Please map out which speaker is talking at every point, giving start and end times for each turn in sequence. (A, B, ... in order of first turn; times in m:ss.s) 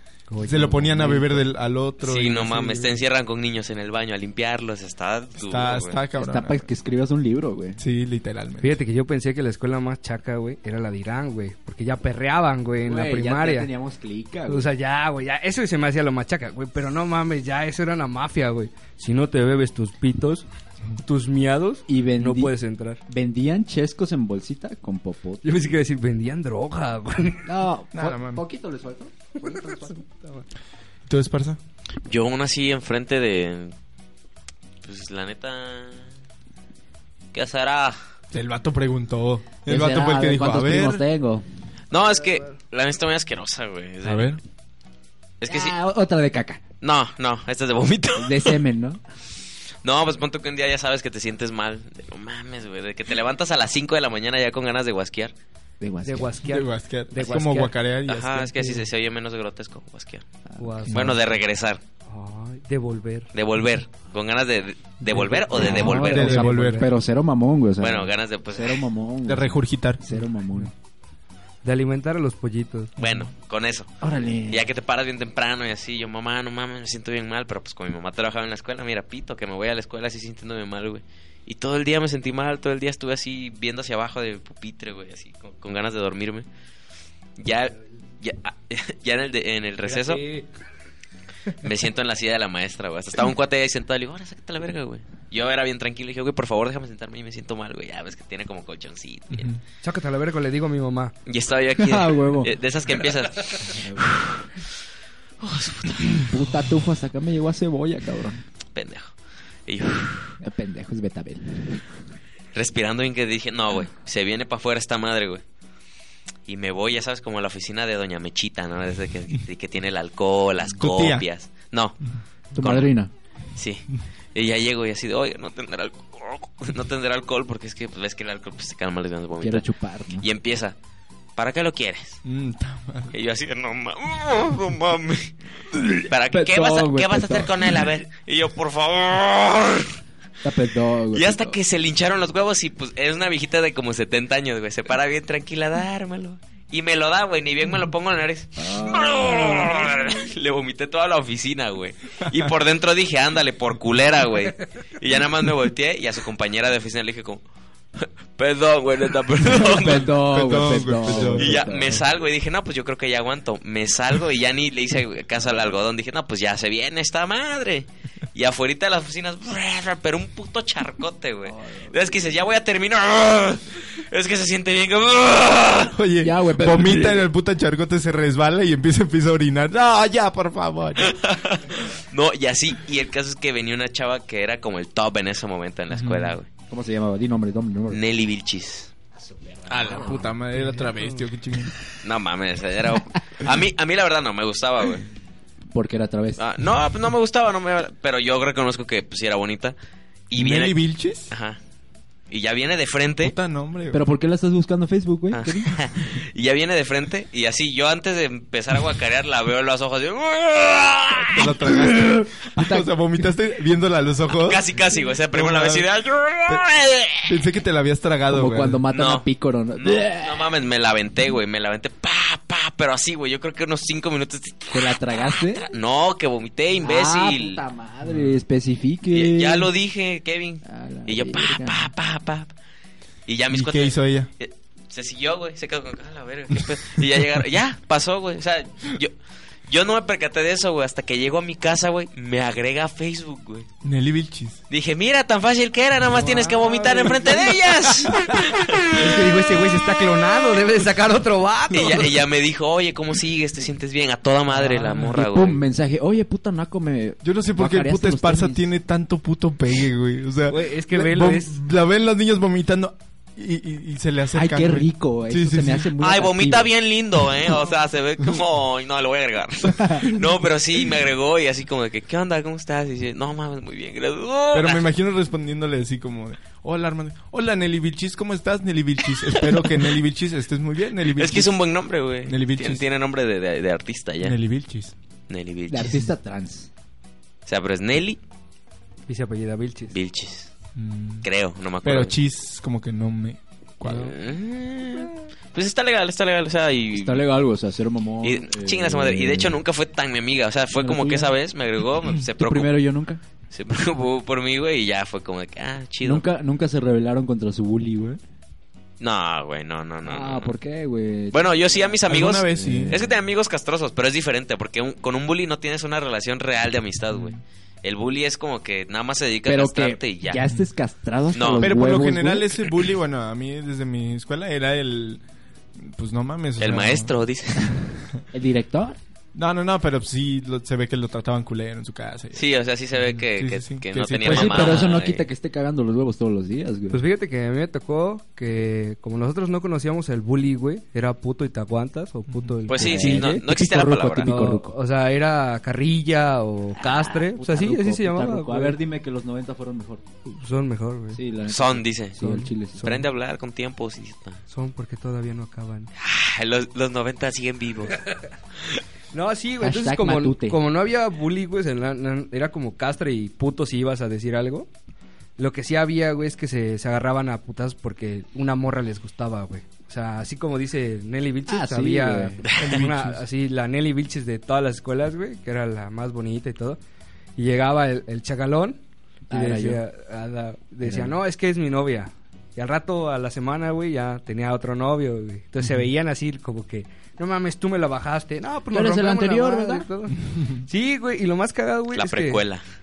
0:00.3-0:01.4 A
0:00.5-0:03.0 B
0:02.0-0:06.0 C
0:05.4-0:06.6 B
0:06.1-0:07.8 D
0:07.8-0:08.8 B
0:08.6-0:13.7 A
0:12.8-0:14.7 D
0:14.5-0:20.5 A
0:21.0-0:23.0 A
0:21.9-0:22.5 D
0:23.1-0:25.6 D
0:25.4-0:27.5 A
0:27.5-0:30.0 D
0:27.9-0:28.4 B
0:29.4-0:30.4 A
0:31.1-0:31.6 B
0:32.1-0:33.7 C
0:34.8-0:36.0 C
0:37.3-0:38.0 C
0:38.3-0:41.0 B
0:39.7-0:41.4 D
0:41.9-0:44.3 C
0:44.0-0:44.4 B
0:45.4-0:45.8 C
0:45.5-0:46.6 D
0:46.8-0:48.6 C
0:48.2-0:49.0 D
0:49.8-0:55.3 C
0:55.8-0:56.4 D
0:56.0-0:57.7 A
0:56.4-0:58.7 B
0:58.1-1:00.2 C
1:00.5-1:01.1 D
1:00.6-1:01.3 A
1:00.9-1:01.8 C
1:02.1-1:03.3 A
1:03.3-1:06.4 C
1:05.0-1:06.9 A
1:05.5-1:10.7 D
1:05.6-1:06.9 B
1:07.8-1:08.8 C
1:09.3-1:10.0 B
1:11.6-1:12.9 A
1:13.0-1:13.9 C
1:13.0-1:13.2 B
1:14.0-1:14.7 D
1:14.5-1:26.4 C
1:27.4-1:30.2 C
1:29.8-1:30.5 A
1:31.5-1:39.5 C
1:39.3-1:39.6 B
1:39.8-1:41.1 A
1:41.3-1:44.7 C
1:41.8-1:42.5 D
1:43.6-1:44.2 D
1:45.4-1:46.4 C
1:46.1-1:48.4 D
1:48.8-1:49.1 C
1:49.7-1:50.4 C
1:50.4-1:51.8 D
1:52.5-1:55.4 C
1:56.5-2:02.0 C
2:00.8-2:01.2 B
2:02.6-2:03.1 D
2:02.6-2:02.9 C
2:03.6-2:09.7 C
2:09.4-2:10.3 D
2:10.2-2:10.8 C
2:11.4-2:12.2 C
2:12.2-2:13.1 B
2:13.1-2:15.3 C
2:15.8-2:17.8 D
2:16.0-2:19.9 C
2:20.4-2:21.6 D
2:21.1-2:37.4 C
2:28.6-2:30.0 D
2:38.0-2:40.2 C
2:39.4-2:42.0 D
2:40.3-2:41.7 B
2:41.2-2:56.0 C
2:51.5-2:52.0 D
2:55.9-3:01.2 B
2:56.2-2:57.3 D
3:01.0-3:06.5 C
3:05.9-3:06.4 B
3:06.7-3:08.0 D
3:07.9-3:08.9 C
3:09.2-3:10.3 D
3:09.7-3:11.7 B
3:11.0-3:11.2 A
3:12.0-3:15.1 C
3:15.7-3:16.4 D
3:16.4-3:19.8 C
3:20.3-3:20.8 C
3:20.4-3:21.3 B
3:21.3-3:21.6 C
3:22.3-3:23.4 C
3:23.2-3:24.0 B
3:23.9-3:25.8 D
3:25.3-3:31.6 C
3:31.2-3:34.7 B
3:31.7-3:32.9 D
3:34.3-3:37.4 C
3:35.3-3:35.9 B
3:37.3-3:38.8 B
3:38.3-3:40.5 D
3:38.9-3:47.6 C
3:44.7-3:45.7 D
3:46.8-3:49.7 D
3:48.0-3:48.3 B
3:49.1-3:52.5 C
3:50.6-3:51.9 D
3:53.3-3:59.1 C
3:53.5-3:54.3 B
3:59.7-4:03.7 C
4:03.8-4:04.6 B
4:04.7-4:09.0 C
4:06.1-4:08.0 A
4:08.9-4:12.2 A
4:11.7-4:15.6 C
4:15.0-4:18.7 D
4:17.2-4:25.9 B
4:20.5-4:21.6 A
4:24.3-4:26.7 D
4:26.0-4:34.9 C
4:29.7-4:30.1 D
4:34.5-4:41.5 B
4:39.3-4:39.9 C
4:41.0-4:44.4 C
4:42.3-4:42.8 B
4:44.2-4:44.9 B
4:45.3-4:46.1 C
4:45.7-4:46.7 D
4:47.5-4:48.2 C
4:49.1-4:49.9 A
4:49.9-4:50.5 C
4:50.8-4:51.3 B
4:51.2-4:52.2 C
4:51.8-4:54.1 B
4:53.8-4:54.1 A
4:53.9-4:57.3 C
4:56.9-4:59.6 D
4:58.2-5:02.7 C
5:00.8-5:01.4 D
5:02.4-5:03.2 D
5:03.5-5:06.3 C
5:06.0-5:08.2 D
5:09.0-5:10.5 C
5:10.0-5:12.0 D
5:11.3-5:20.4 C
5:12.1-5:13.0 B
5:12.6-5:13.1 D
5:17.1-5:17.4 B
5:19.5-5:22.5 D
5:21.3-5:21.7 C
5:21.6-5:25.2 B
5:25.8-5:27.1 B
5:26.6-5:27.8 C
5:28.3-5:29.0 D
5:29.4-5:32.4 B
5:32.4-5:35.3 C
5:32.9-5:34.9 B
5:34.2-5:37.0 D
5:36.9-5:43.4 A
5:42.3-5:42.6 B
5:42.7-5:44.3 C
5:42.7-5:44.8 D
5:44.2-5:48.8 A
5:47.1-5:50.0 D
5:50.3-5:51.2 A
5:51.1-5:53.0 D
5:51.5-5:54.4 C
5:52.2-5:53.0 A
5:54.5-5:55.9 A
5:56.0-5:58.0 C
5:59.1-6:04.7 A
5:59.6-6:00.6 D
6:05.4-6:16.8 A
6:11.5-6:12.4 D
6:12.6-6:13.2 B
6:17.4-6:18.8 A
6:19.3-6:19.8 D
6:19.3-6:32.4 A
6:20.8-6:21.2 D
6:28.7-6:29.9 D
6:30.3-6:30.6 B
6:31.9-6:32.6 C